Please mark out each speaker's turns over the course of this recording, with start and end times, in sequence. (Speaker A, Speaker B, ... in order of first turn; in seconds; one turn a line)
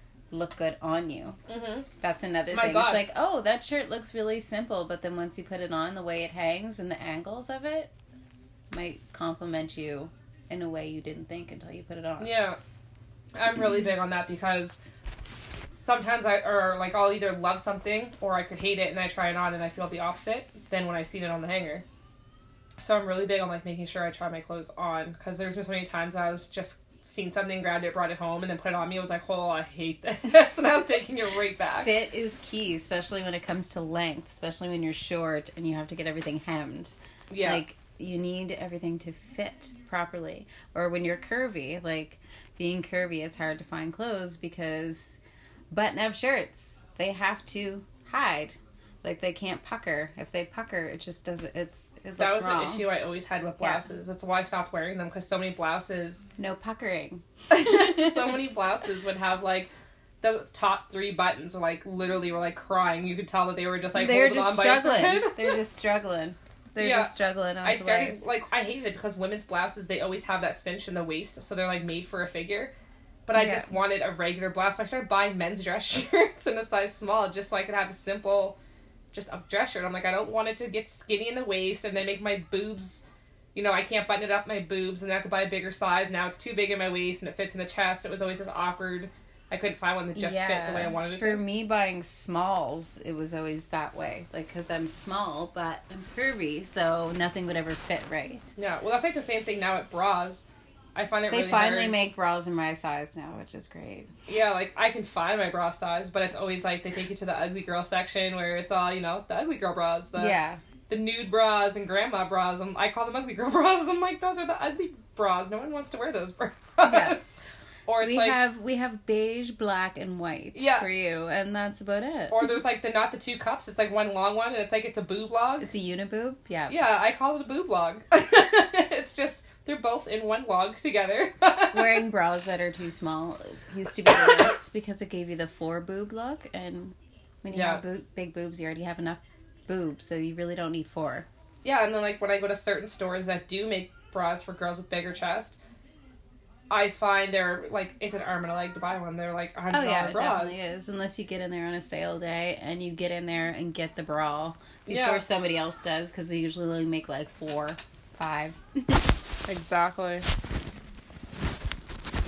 Speaker A: 0.3-1.4
Speaker B: 1.5-1.9
Speaker A: 2.0-7.9
Speaker B: 2.5-3.1
Speaker A: 8.7-12.3
Speaker B: 12.2-12.6
Speaker B: 13.3-14.8
Speaker B: 15.7-21.9
Speaker B: 22.8-31.9
Speaker A: 31.8-45.2
Speaker B: 37.3-37.6
Speaker A: 45.7-52.9
Speaker B: 52.2-56.3
Speaker A: 53.6-53.9
Speaker A: 56.4-58.4
Speaker B: 57.5-59.7
Speaker B: 60.2-65.6
Speaker A: 64.0-68.2
Speaker B: 66.8-72.7
Speaker B: 73.3-78.6
Speaker A: 73.3-73.7
Speaker B: 79.1-91.4
Speaker A: 90.1-98.5
Speaker B: 98.6-102.0
Speaker A: 101.3-104.1
Speaker B: 104.3-110.4
Speaker A: 110.2-110.6
Speaker B: 110.9-118.4
Speaker A: 116.8-117.2
Speaker A: 118.0-122.4
Speaker B: 120.5-120.9
Speaker B: 122.3-125.7
Speaker A: 125.6-126.8
Speaker B: 126.7-132.0
Speaker A: 131.7-141.3
Speaker B: 137.5-137.8
Speaker B: 141.6-145.6
Speaker B: 146.7-150.7
Speaker A: 149.7-159.1
Speaker B: 154.9-155.2
Speaker B: 159.5-160.3